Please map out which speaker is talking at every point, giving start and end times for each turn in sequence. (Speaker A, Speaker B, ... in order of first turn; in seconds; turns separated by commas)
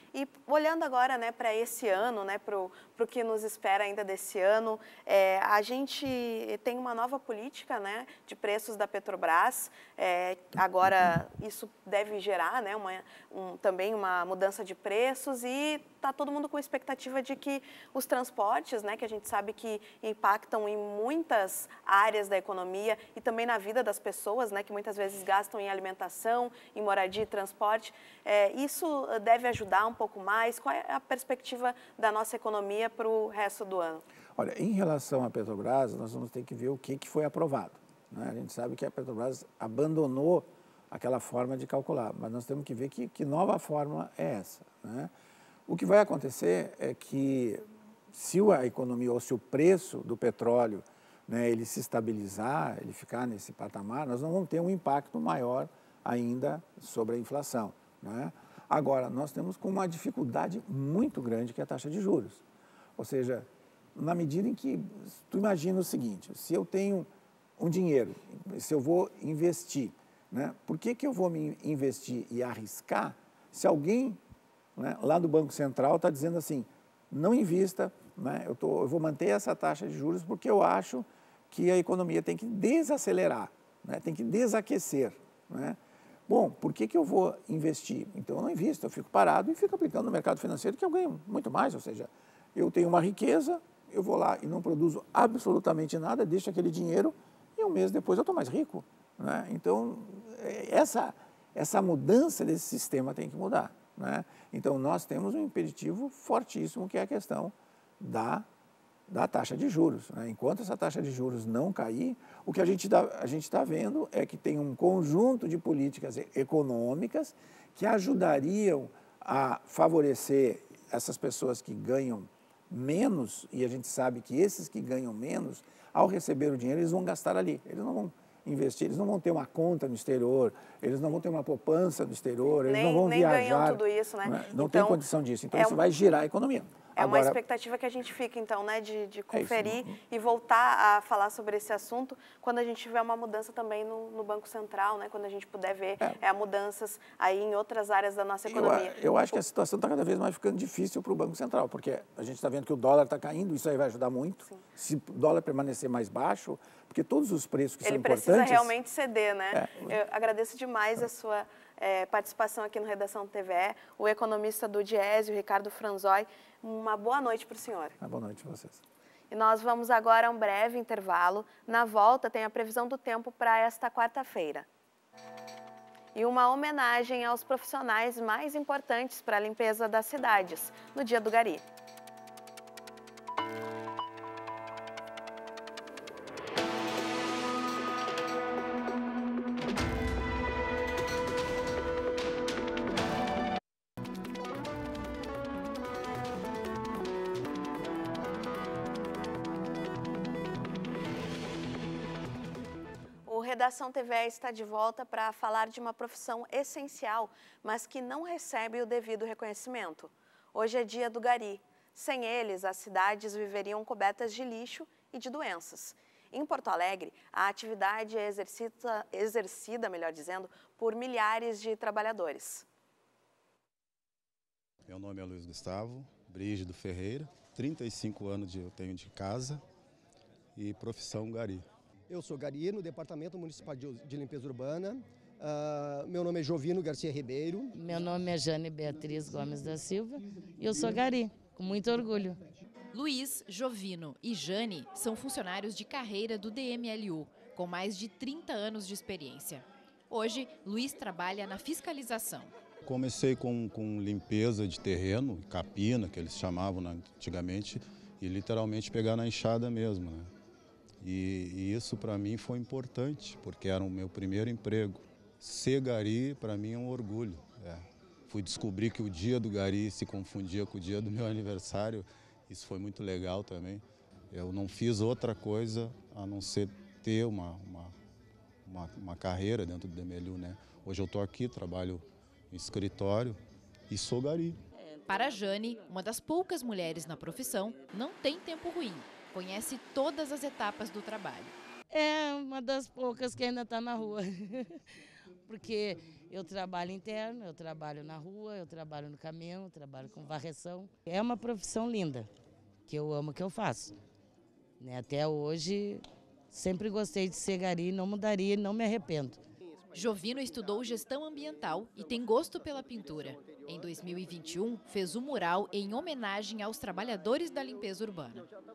Speaker A: 0.1-34.0, Speaker B: 34.4-45.1, Speaker B: 45.7-62.4, Speaker B: 63.0-74.2, Speaker B: 74.8-108.5, Speaker B: 109.1-137.4, Speaker A: 132.7-135.0, Speaker A: 135.5-135.8, Speaker A: 136.9-149.4, Speaker B: 139.3-139.9, Speaker B: 148.4-158.7, Speaker A: 157.8-167.9, Speaker B: 159.5-159.9, Speaker B: 168.0-168.8, Speaker A: 169.3-174.7, Speaker A: 176.1-181.6, Speaker A: 203.3-222.6, Speaker C: 224.8-229.6, Speaker C: 230.5-231.7, Speaker D: 232.1-237.7, Speaker E: 237.7-242.4, Speaker F: 242.9-252.5, Speaker C: 252.8-260.3, Speaker C: 261.0-277.9, Speaker C: 278.6-284.6, Speaker F: 285.1-291.5, Speaker E: 291.9-294.7, Speaker E: 295.5-302.3, Speaker E: 302.9-303.9, Speaker E: 304.8-309.4, Speaker F: 309.9-318.5